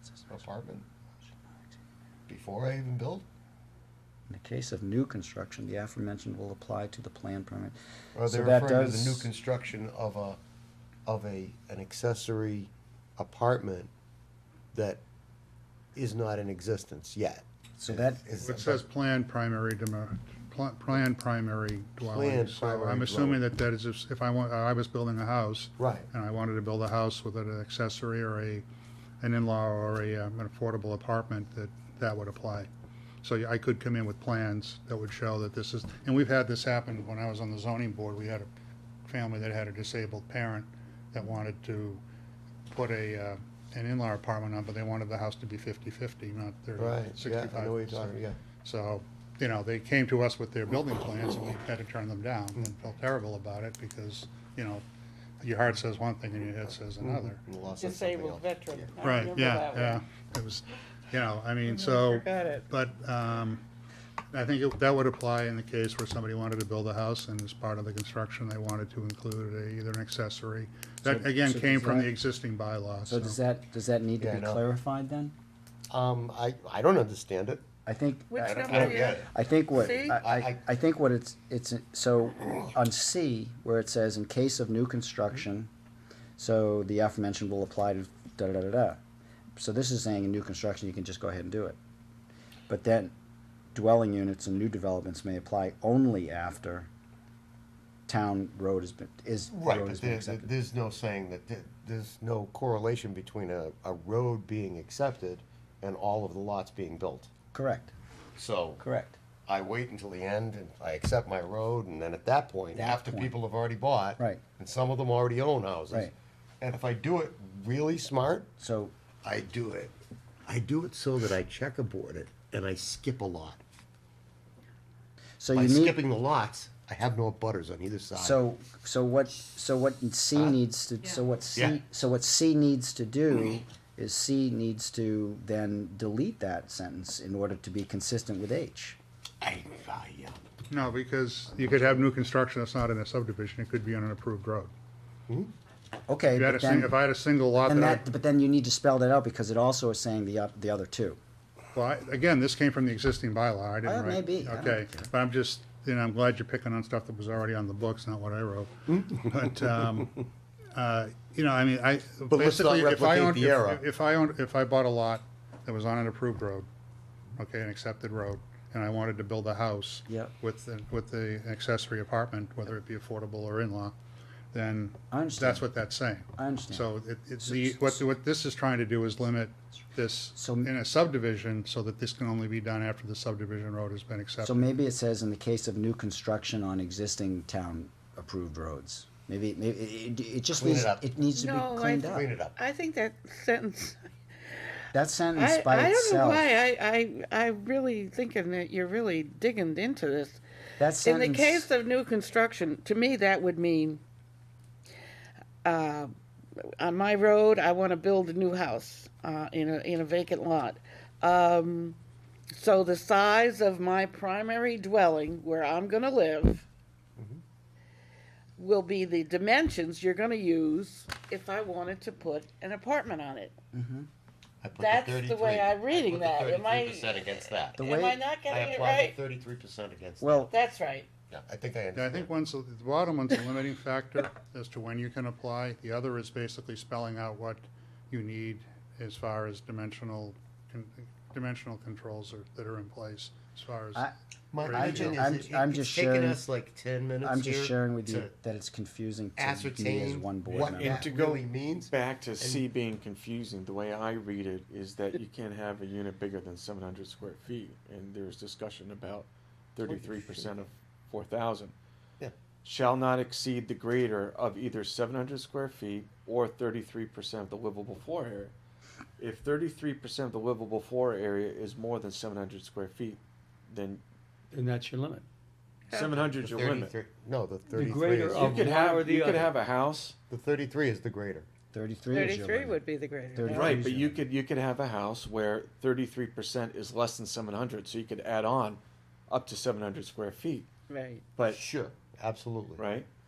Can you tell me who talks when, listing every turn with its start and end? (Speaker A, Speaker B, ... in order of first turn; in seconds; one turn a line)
Speaker A: 0.3-0.8
Speaker A: 2.3-3.2
Speaker B: 4.3-7.8
Speaker A: 8.1-10.4
Speaker B: 8.3-9.3
Speaker A: 11.1-13.9
Speaker A: 14.7-15.0
Speaker A: 15.9-18.9
Speaker B: 17.8-18.2
Speaker C: 18.4-28.6
Speaker A: 22.0-23.4
Speaker A: 25.8-26.1
Speaker C: 29.2-32.7
Speaker C: 33.2-38.5
Speaker C: 39.1-42.0
Speaker C: 42.7-54.8
Speaker A: 46.8-48.4
Speaker C: 55.4-57.4
Speaker A: 57.0-58.9
Speaker D: 57.8-60.0
Speaker C: 59.0-63.6
Speaker D: 61.6-62.6
Speaker C: 64.3-73.4
Speaker B: 71.0-72.1
Speaker B: 73.0-75.3
Speaker A: 74.2-74.6
Speaker A: 75.9-77.6
Speaker B: 77.8-85.7
Speaker D: 78.3-79.2
Speaker A: 78.4-79.3
Speaker D: 79.7-80.2
Speaker A: 80.0-80.6
Speaker B: 86.4-89.0
Speaker B: 89.5-91.8
Speaker B: 92.7-93.1
Speaker B: 93.7-96.9
Speaker B: 98.1-100.5
Speaker A: 99.5-107.3
Speaker B: 107.5-107.9
Speaker A: 108.3-108.8
Speaker B: 108.8-109.2
Speaker A: 109.5-118.5
Speaker B: 112.7-113.3
Speaker B: 118.6-118.9
Speaker A: 119.2-119.9
Speaker A: 120.5-123.6
Speaker B: 125.4-126.0
Speaker A: 125.5-128.4
Speaker B: 128.2-139.0
Speaker A: 133.3-133.6
Speaker A: 139.4-140.4
Speaker C: 140.7-144.7
Speaker B: 146.1-146.9
Speaker C: 146.4-148.1
Speaker B: 147.6-151.2
Speaker C: 151.7-160.2
Speaker B: 153.8-155.1
Speaker C: 160.7-166.7
Speaker A: 162.3-163.8
Speaker C: 167.4-173.9
Speaker C: 174.5-184.7
Speaker B: 175.1-175.7
Speaker B: 176.4-176.8
Speaker B: 177.4-178.0
Speaker B: 180.3-180.7
Speaker B: 184.4-192.3
Speaker A: 190.6-191.1
Speaker D: 191.3-200.4
Speaker A: 192.1-192.6
Speaker B: 194.9-196.5
Speaker B: 200.8-201.7
Speaker D: 201.0-204.0
Speaker D: 205.6-212.0
Speaker D: 212.5-216.6
Speaker D: 218.6-223.5
Speaker B: 223.7-224.1
Speaker A: 224.6-227.8
Speaker D: 224.8-229.2
Speaker B: 227.8-228.2
Speaker A: 228.4-230.4
Speaker B: 230.2-230.5
Speaker D: 230.5-231.1
Speaker A: 231.3-232.3
Speaker C: 231.9-244.1
Speaker A: 244.5-248.3
Speaker C: 244.6-245.2
Speaker B: 244.7-246.4
Speaker B: 247.2-251.0
Speaker A: 249.4-252.6
Speaker E: 250.5-261.7
Speaker A: 259.8-260.6
Speaker E: 262.6-268.5
Speaker E: 269.2-274.0
Speaker F: 274.5-275.2
Speaker D: 275.9-276.2
Speaker E: 275.9-276.9
Speaker A: 276.4-278.6
Speaker F: 277.7-279.5
Speaker E: 278.3-280.1
Speaker A: 280.3-281.5
Speaker B: 281.7-282.8
Speaker D: 282.1-283.8
Speaker B: 283.3-284.2
Speaker E: 283.5-290.7
Speaker D: 290.9-291.2
Speaker A: 291.5-292.8
Speaker E: 292.8-293.1